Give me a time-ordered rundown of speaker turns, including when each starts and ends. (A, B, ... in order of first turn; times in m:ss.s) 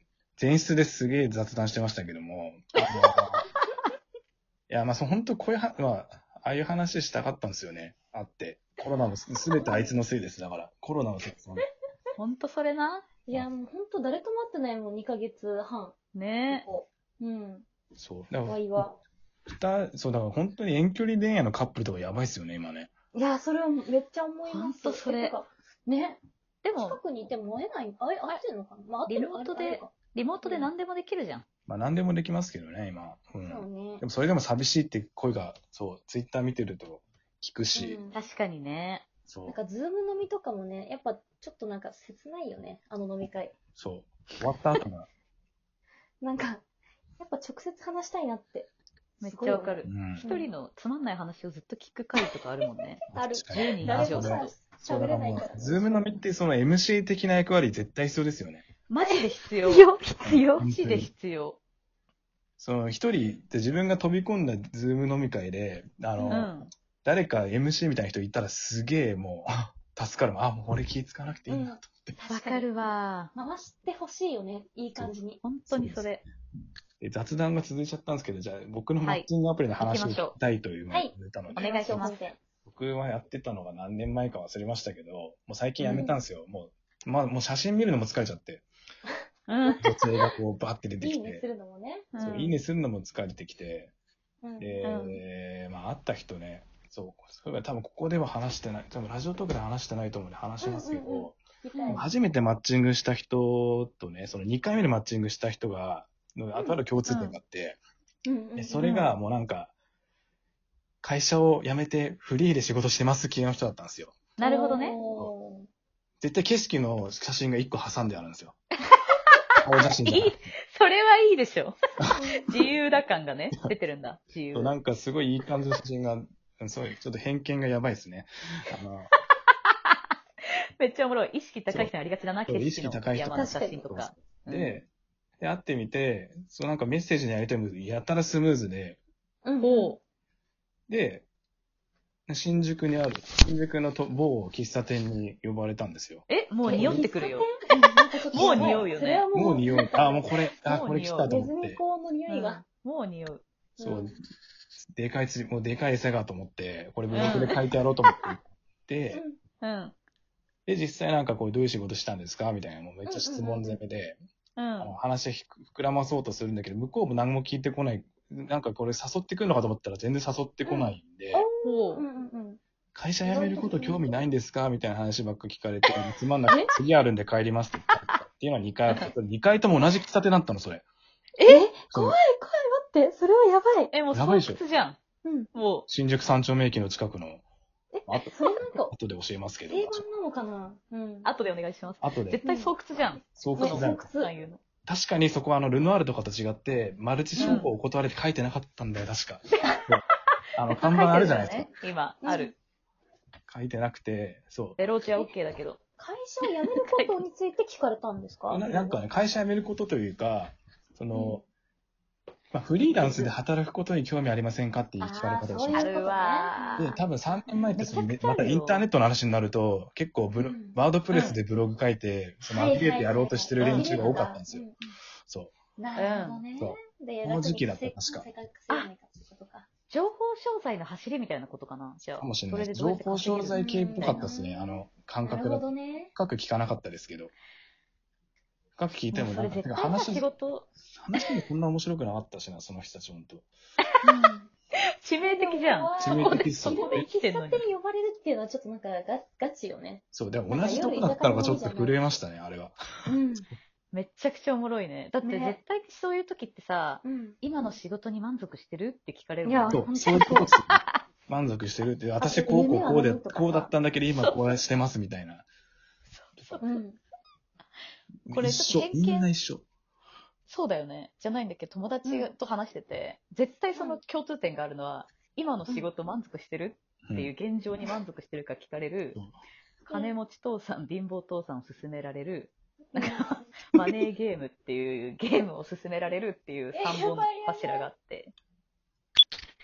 0:00.4-0:03.4 A
0:04.7-0:11.6 A
0:09.6-0:10.0 B
0:12.2-0:13.0 C
0:13.2-0:15.9 B
0:16.1-0:16.6 C
0:16.5-0:17.6 B
0:18.0-0:18.9 A
0:18.4-0:19.0 B
0:19.5-0:22.9 A
0:23.1-0:26.2 B
0:24.5-0:25.3 C
0:26.6-0:27.0 C
0:26.8-0:29.9 B
0:29.1-0:31.4 C
0:30.4-0:30.7 B
0:31.7-0:38.0 A
0:33.5-0:34.0 B
0:37.7-0:38.2 B
0:38.1-0:39.0 C
0:39.3-0:39.5 A
0:39.4-0:43.5 B
0:43.8-0:45.1 A
0:46.2-0:46.6 B
0:47.2-0:48.7 B
0:49.2-0:50.5 B
0:49.2-0:54.5 C
0:49.8-0:50.2 A
0:53.0-0:56.2 B
0:53.1-0:58.6 A
0:58.9-0:59.9 C
0:59.0-1:00.6 B
1:00.2-1:01.1 A
1:00.4-1:01.6 C
1:02.6-1:12.2 A
1:06.2-1:06.5 B
1:06.3-1:06.7 C
1:11.5-1:15.4 B
1:12.3-1:13.3 C
1:15.4-1:16.2 C
1:15.7-1:16.1 A
1:17.0-1:22.1 A
1:19.0-1:19.3 C
1:19.8-1:20.3 C
1:20.9-1:22.4 B
1:21.6-1:22.2 C
1:22.6-1:28.7 A
1:25.9-1:26.2 B
1:29.5-1:29.8 C
1:29.7-1:30.3 B
1:29.8-1:31.4 A
1:31.0-1:32.1 B
1:32.1-1:32.6 C
1:32.2-1:33.9 A
1:34.4-1:34.9 B
1:34.6-1:41.4 A
1:34.8-1:35.2 C
1:40.6-1:42.1 B
1:41.7-1:42.0 C
1:41.9-1:47.8 A
1:46.5-1:46.8 B
1:47.0-1:47.3 C
1:48.2-1:48.9 B
1:48.6-1:49.7 A
1:48.8-1:49.1 C
1:51.0-1:54.2 A
1:54.4-1:55.0 C
1:54.4-1:55.7 B
1:56.2-1:58.6 A
1:59.1-2:01.8 C
1:59.6-2:00.4 A
2:02.1-2:02.7 B
2:02.5-2:04.7 C
2:04.5-2:09.1 A
2:09.6-2:10.0 C
2:10.8-2:14.8 C
2:12.5-2:14.8 A
2:13.3-2:13.9 B
2:15.4-2:19.0 A
2:19.4-2:20.0 B
2:19.6-2:20.0 C
2:20.9-2:21.2 A
2:22.3-2:27.1 A
2:26.3-2:29.2 C
2:26.7-2:30.3 B
2:28.3-2:31.8 A
2:30.6-2:31.3 C
2:31.3-2:32.6 B
2:32.3-2:33.4 C
2:33.8-2:34.2 B
2:33.8-2:34.1 A
2:34.9-2:39.2 A
2:37.1-2:37.6 C
2:39.1-2:39.4 B
2:39.6-2:39.9 C
2:40.6-2:44.2 A
2:43.0-2:43.8 B
2:44.6-2:44.9 C
2:44.8-2:51.4 A
2:50.6-2:52.6 B
2:51.6-2:52.0 C
2:52.9-3:00.8 A
2:53.2-2:54.2 B
3:01.4-3:03.9 B
3:01.9-3:02.2 A
3:03.9-3:05.0 C
3:04.1-3:04.6 A
3:05.2-3:05.5 B
3:05.5-3:05.9 C
3:05.9-3:07.4 A
3:07.9-3:08.9 B
3:08.4-3:08.8 C
3:08.9-3:10.0 A
3:09.7-3:11.3 B
3:11.2-3:14.6 C
3:12.0-3:12.4 A
3:12.4-3:12.7 B
3:13.4-3:14.1 A
3:13.6-3:14.3 B
3:14.8-3:20.0 A
3:17.4-3:17.7 B
3:17.4-3:17.7 C
3:20.6-3:21.7 A
3:20.8-3:22.5 C
3:22.2-3:22.5 B
3:23.5-3:24.8 A
3:24.8-3:25.8 C
3:26.0-3:29.0 B
3:26.4-3:27.2 C
3:28.5-3:31.4 A
3:31.1-3:31.4 B
3:32.5-3:35.9 A
3:33.0-3:33.3 C
3:33.0-3:33.3 B
3:35.0-3:38.0 B
3:35.7-3:37.0 C
3:36.8-3:44.6 A
3:37.8-3:38.8 C
3:40.4-3:40.8 B
3:41.1-3:41.4 C
3:42.5-3:44.9 B
3:43.6-3:44.2 C
3:45.3-3:45.5 A
3:45.8-3:49.7 B
3:46.0-3:46.4 C
3:46.6-3:48.2 A
3:49.9-3:54.3 C
3:52.2-3:57.3 A
3:53.5-3:56.1 B
3:58.8-4:00.3 A
3:59.1-4:00.7 C
4:01.0-4:03.5 A
4:04.0-4:04.4 C
4:04.0-4:04.5 B
4:05.0-4:07.6 C
4:05.2-4:11.9 B
4:06.0-4:06.9 A
4:10.1-4:12.8 A
4:10.6-4:10.9 C
4:13.1-4:13.4 B
4:13.9-4:21.0 C
4:15.2-4:15.6 B
4:17.0-4:17.7 B
4:19.4-4:20.5 B
4:19.7-4:25.5 A
4:22.2-4:23.7 B
4:26.1-4:26.8 C
4:26.6-4:27.0 B
4:28.3-4:29.3 C
4:28.3-4:29.6 A
4:30.5-4:39.2 C
4:32.0-4:32.3 B
4:33.7-4:34.0 B
4:37.1-4:37.3 A
4:39.8-4:48.3 C
4:42.9-4:43.3 B
4:46.7-4:47.9 B